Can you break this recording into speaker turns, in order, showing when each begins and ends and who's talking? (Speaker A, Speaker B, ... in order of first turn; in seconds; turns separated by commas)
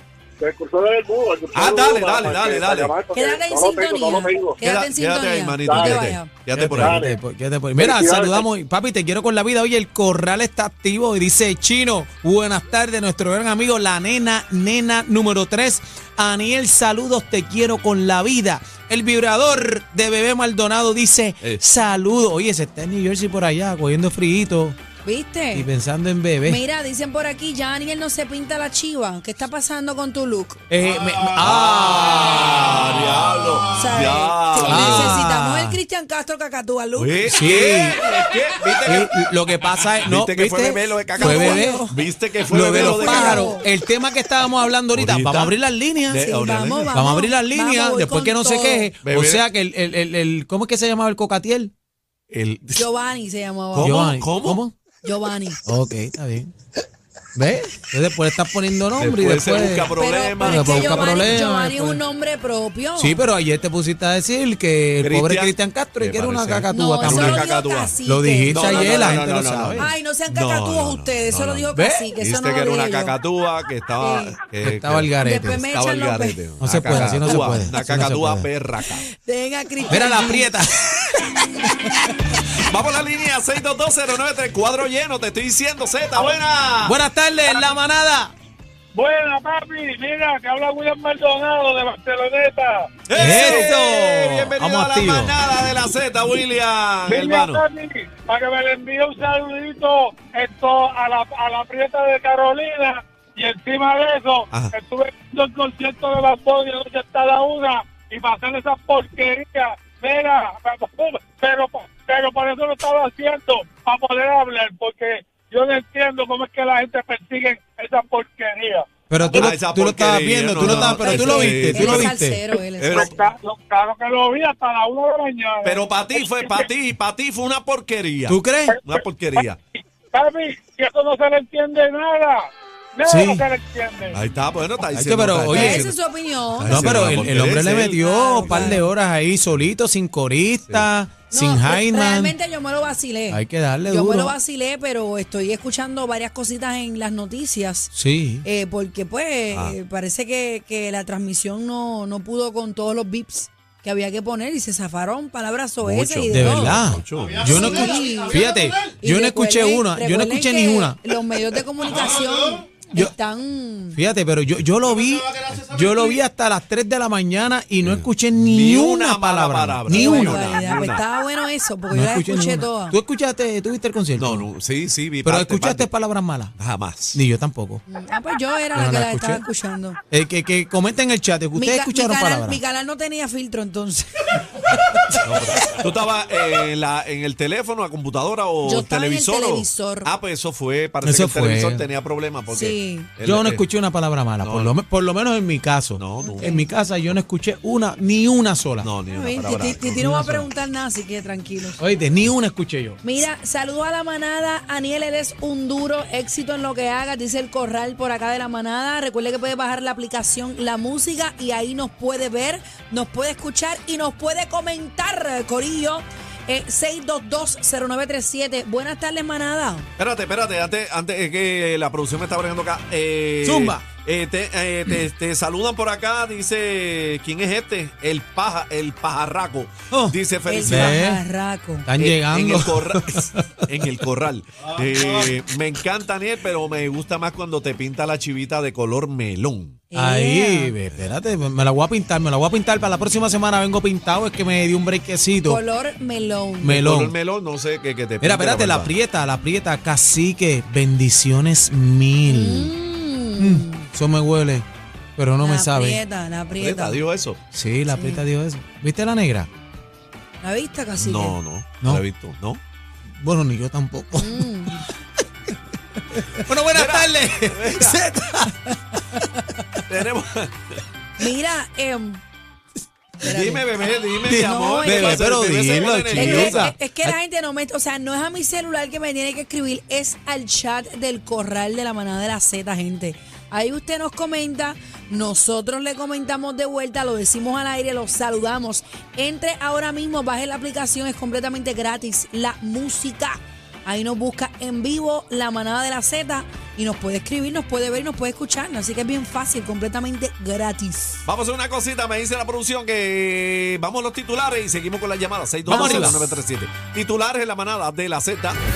Speaker A: 0.4-4.6, Speaker B: 1.5-2.9, Speaker C: 3.1-6.3, Speaker B: 4.6-7.0, Speaker A: 5.6-6.1, Speaker D: 6.5-24.8, Speaker A: 6.7-7.2, Speaker A: 7.8-8.4, Speaker C: 25.0-25.7, Speaker D: 25.5-26.6, Speaker C: 26.4-30.6, Speaker D: 30.7-32.7, Speaker B: 31.3-35.2, Speaker C: 33.7-37.8, Speaker D: 34.6-35.8, Speaker B: 37.0-39.1, Speaker D: 37.3-38.0, Speaker D: 38.9-41.9, Speaker B: 40.0-43.6, Speaker C: 41.2-42.0, Speaker D: 42.5-46.3, Speaker C: 42.7-43.6, Speaker B: 44.9-45.5, Speaker B: 46.1-46.9, Speaker C: 46.2-48.9, Speaker D: 46.9-51.7, Speaker B: 49.0-49.4, Speaker B: 52.3-52.8, Speaker C: 52.8-54.1, Speaker B: 53.7-54.6, Speaker D: 53.8-54.7, Speaker C: 55.0-55.6, Speaker D: 55.6-56.5, Speaker D: 57.3-62.0, Speaker B: 59.0-61.3, Speaker C: 60.0-63.2, Speaker D: 63.0-67.5, Speaker B: 65.0-68.0, Speaker C: 66.7-73.1, Speaker D: 68.0-69.9, Speaker B: 68.5-79.0, Speaker D: 71.7-72.1, Speaker C: 74.0-74.4, Speaker D: 74.6-75.6, Speaker C: 75.2-77.5, Speaker D: 76.6-78.5, Speaker C: 78.8-80.6, Speaker D: 79.9-81.2, Speaker C: 81.6-82.1, Speaker B: 82.7-87.0, Speaker D: 86.8-88.3, Speaker E: 88.9-92.9, Speaker B: 93.1-97.6, Speaker D: 93.2-95.4, Speaker E: 97.1-118.9, Speaker D: 119.1-122.4, Speaker B: 119.2-122.1, Speaker C: 120.6-123.3, Speaker B: 122.8-123.1, Speaker E: 122.9-126.6, Speaker B: 125.6-129.6, Speaker D: 128.3-128.8, Speaker E: 130.1-134.2, Speaker D: 133.1-133.4, Speaker B: 134.1-136.0, Speaker D: 134.8-135.9, Speaker C: 135.5-138.9, Speaker B: 136.5-138.8, Speaker D: 136.7-142.3, Speaker C: 141.3-147.9, Speaker D: 143.3-144.3, Speaker D: 147.9-148.4, Speaker C: 148.4-156.8, Speaker B: 149.5-149.8, Speaker B: 155.8-157.7, Speaker D: 156.3-161.0, Speaker C: 157.4-164.0, Speaker D: 163.9-170.6, Speaker B: 167.8-171.0, Speaker C: 169.9-173.0, Speaker D: 171.9-174.4, Speaker B: 174.2-175.9, Speaker D: 175.2-176.5, Speaker B: 176.6-177.2, Speaker D: 177.1-177.8, Speaker C: 177.9-180.0, Speaker D: 178.7-179.4, Speaker D: 180.1-182.6, Speaker C: 181.5-184.3, Speaker B: 185.2-193.6, Speaker C: 188.6-190.1, Speaker D: 191.0-191.9, Speaker C: 192.5-193.1, Speaker D: 193.2-198.9, Speaker B: 194.4-194.7, Speaker B: 196.0-196.5, Speaker C: 196.2-196.7, Speaker B: 198.8-200.0, Speaker C: 199.1-201.8, Speaker D: 199.9-200.5, Speaker D: 201.8-203.0, Speaker C: 203.0-219.9, Speaker B: 220.0-231.0, Speaker D: 223.4-223.8, Speaker D: 229.9-231.2, Speaker C: 230.5-231.9, Speaker D: 231.8-233.4, Speaker B: 232.0-239.8, Speaker C: 239.9-240.7, Speaker D: 239.9-245.6, Speaker C: 245.4-246.7, Speaker D: 246.6-247.1, Speaker B: 246.7-248.9, Speaker D: 248.2-252.7, Speaker C: 252.2-253.8, Speaker D: 253.4-256.0, Speaker C: 255.4-257.0, Speaker B: 256.5-257.4, Speaker D: 257.5-259.5, Speaker C: 257.9-258.2, Speaker C: 260.4-261.4, Speaker B: 261.0-262.6, Speaker D: 263.2-264.8, Speaker C: 264.1-264.8, Speaker D: 266.1-269.2, Speaker B: 266.7-268.0, Speaker B: 269.9-270.8, Speaker C: 271.2-272.2, Speaker C: 273.2-273.6, Speaker B: 273.2-276.7, Speaker D: 274.3-277.2, Speaker C: 274.4-275.3, Speaker C: 276.1-301.2, Speaker B: 301.2-308.6, Speaker D: 305.6-306.3, Speaker C: 305.7-306.1